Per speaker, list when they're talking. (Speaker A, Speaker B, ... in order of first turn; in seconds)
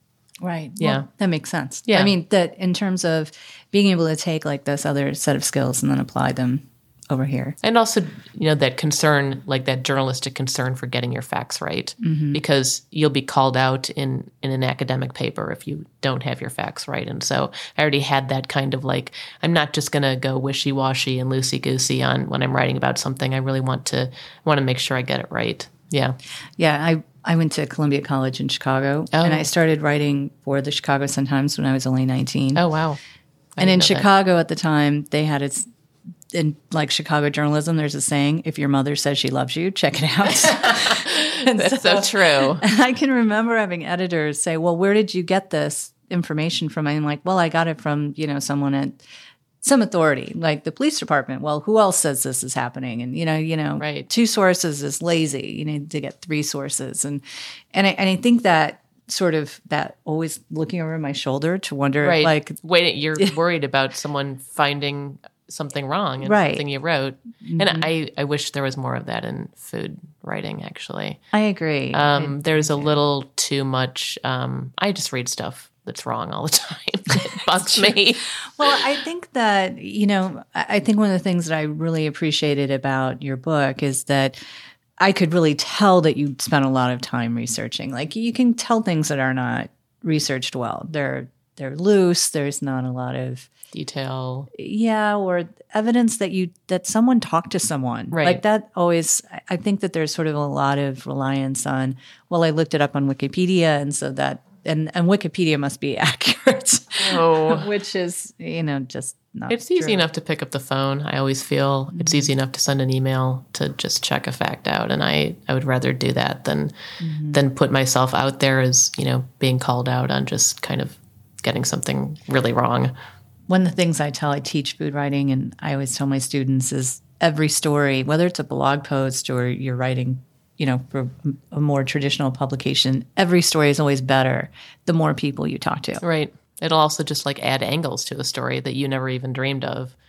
Speaker A: 0.4-7.5, 12.0-12.4, 26.6-32.6, 33.6-35.7, 36.3-49.0, 49.6-57.2, 57.7-62.6, 66.2-66.6, 67.4-67.9, 71.3-72.9, 77.6-78.0, 78.5-84.4, 85.0-93.5, 94.5-110.0, 111.9-112.3, 117.0-117.4, 123.5-136.0
Speaker B: 0.8-1.1, 1.9-2.1, 7.6-26.2, 29.1-29.5, 32.5-33.0, 33.5-34.1, 40.4-42.6, 53.8-54.1, 62.0-71.2, 71.9-78.3, 93.7-94.5, 98.1-98.4, 107.0-107.7, 109.5-116.7, 117.3-122.9, 136.0-139.9